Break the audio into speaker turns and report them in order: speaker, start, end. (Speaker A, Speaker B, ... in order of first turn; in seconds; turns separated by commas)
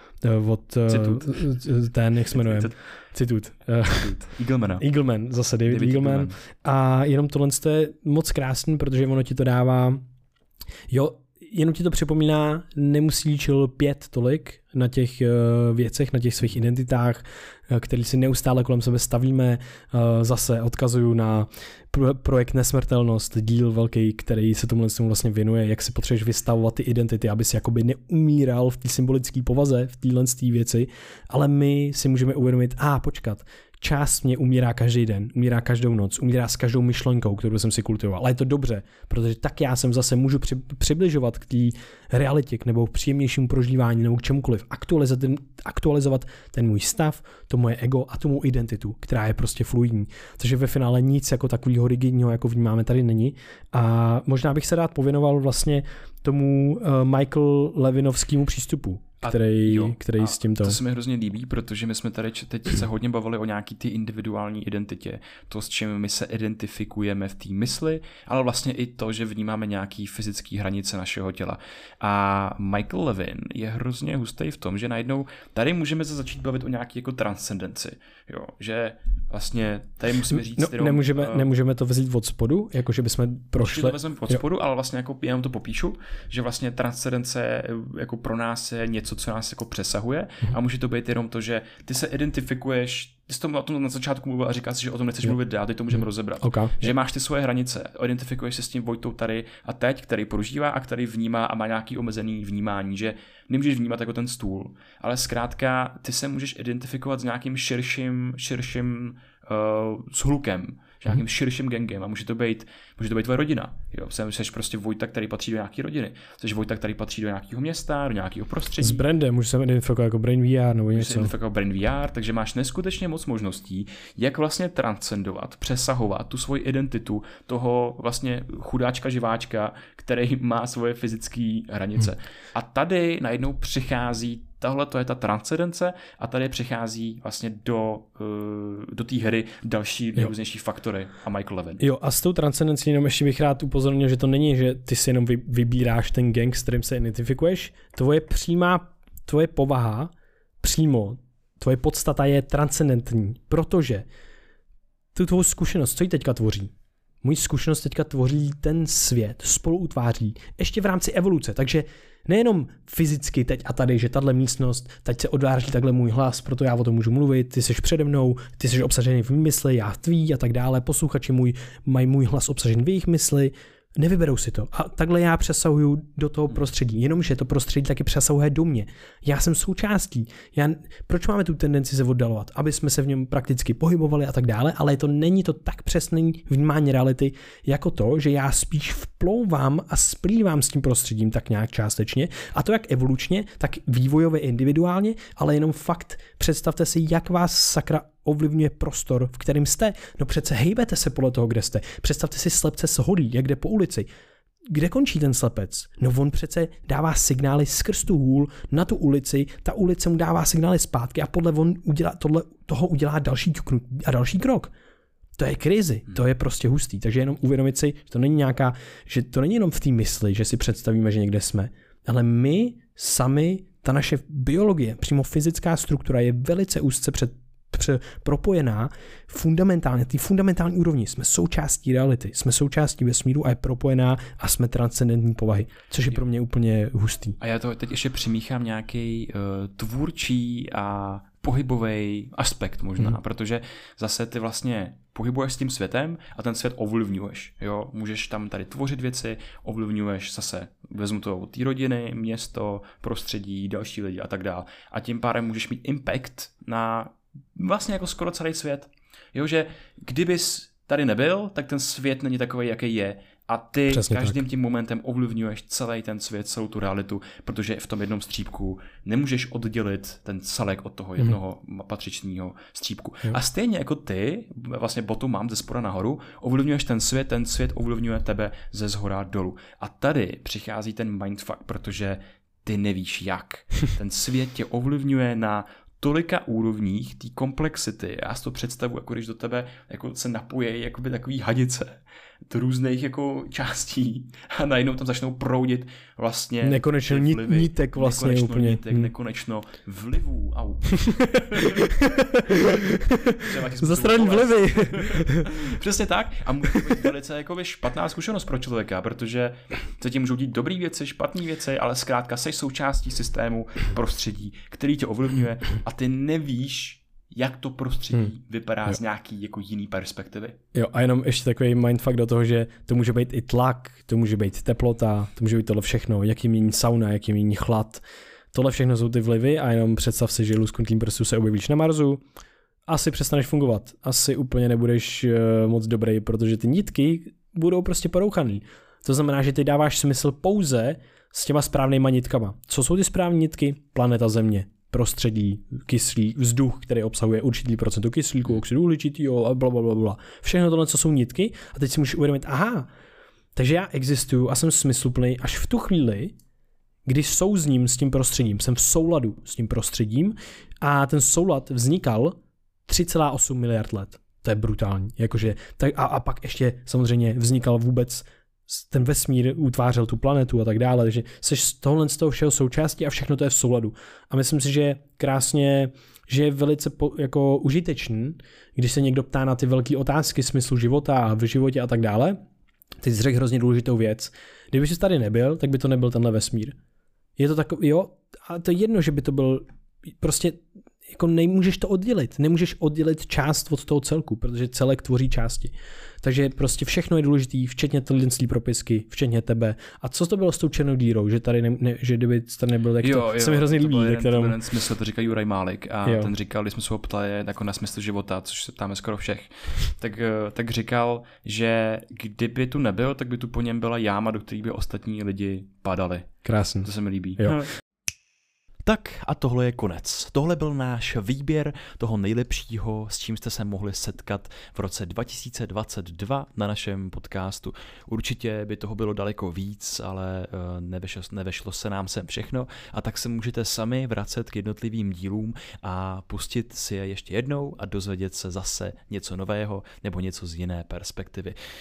Speaker A: 0.2-4.2, Speaker B: 0.9-1.5, Speaker B: 2.3-2.8, Speaker B: 3.9-4.8, Speaker A: 4.8-10.0, Speaker B: 5.7-6.3, Speaker A: 10.9-60.8, Speaker B: 59.2-81.5, Speaker A: 80.3-84.4, Speaker B: 83.6-119.0, Speaker A: 95.9-96.9, Speaker A: 118.8-121.3, Speaker B: 121.0-141.8, Speaker A: 141.8-154.1, Speaker A: 155.1-204.1, Speaker A: 204.7-214.7, Speaker A: 215.4-237.4, Speaker B: 237.4-301.7, Speaker A: 263.9-264.3, Speaker A: 296.6-299.1, Speaker A: 301.1-305.5, Speaker B: 303.4-320.6, Speaker A: 320.7-332.2, Speaker A: 332.9-352.9, Speaker A: 353.6-356.3, Speaker A: 357.1-382.4, Speaker A: 383.0-386.7, Speaker A: 387.4-389.6, Speaker A: 390.2-404.5, Speaker B: 403.0-417.7, Speaker A: 406.0-406.3, Speaker A: 416.4-417.6, Speaker B: 418.8-441.6